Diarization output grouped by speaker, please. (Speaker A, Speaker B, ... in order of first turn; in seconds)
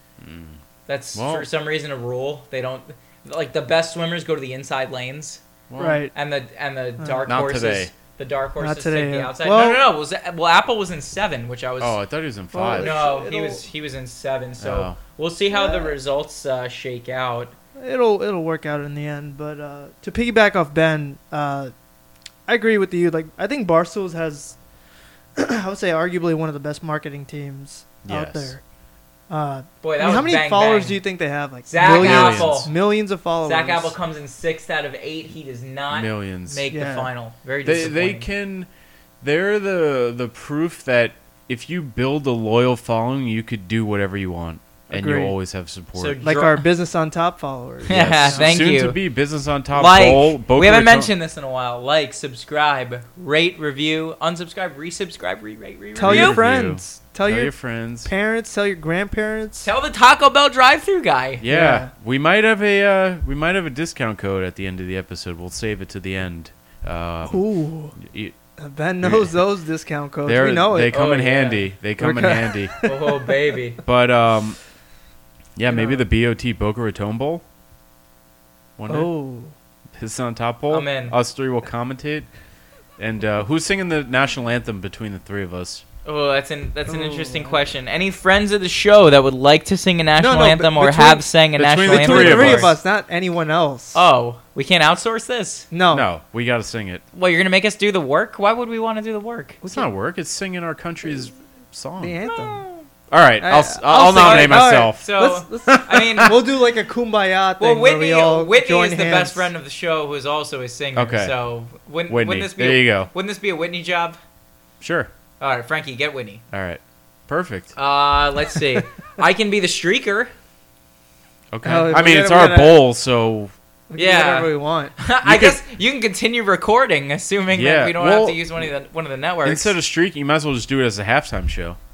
Speaker A: 0.2-0.6, 1.1-1.5, 5.7-6.0, 7.3-7.9, 11.8-12.9, 14.6-15.0, 28.0-28.6, 31.8-32.7, 35.9-36.6, 37.6-38.7, 39.2-46.2, 47.9-51.1, 56.0-58.1, 61.4-68.3, 69.0-69.3, 70.2-72.7, 73.8-74.6, 75.5-77.4, 78.8-79.1, 80.0-82.3, 83.0-85.8, 91.6-92.7, 95.9-97.0, 99.6-102.2, 103.1-105.1, 105.6-106.3, 110.9-111.3, 112.1-113.1, 114.8-115.1, 116.5-117.7, 121.5-123.5, 125.2-125.6, 127.5-128.4, 129.4-131.8
Speaker B: 0.9-5.4, 6.1-12.0, 12.7-17.5, 29.8-31.0, 31.7-32.7, 33.4-38.2, 46.0-46.7, 47.9-49.0, 49.7-56.4, 59.6-61.4, 70.9-71.7, 72.8-73.8, 80.7-81.1, 86.0-92.7, 93.9-95.7, 97.1-99.6, 102.3-102.8, 103.9-106.4, 107.6-114.2, 115.4-116.4, 117.8-120.3, 124.0-129.7
Speaker C: 5.8-6.1, 7.0-7.2, 8.6-9.8, 12.5-13.6, 15.5-15.9, 17.8-21.7, 22.5-24.6, 25.4-28.6, 29.3-33.9, 36.7-37.1, 44.9-45.3, 46.2-48.7, 56.0-57.5, 58.0-59.7, 61.5-61.9, 67.3-68.0, 68.6-71.0, 72.0-73.3, 75.7-76.0, 78.9-79.5, 86.9-87.6, 90.2-91.2, 91.8-94.0, 95.7-96.0, 102.0-102.6, 103.4-109.5, 121.6-122.8, 123.9-124.9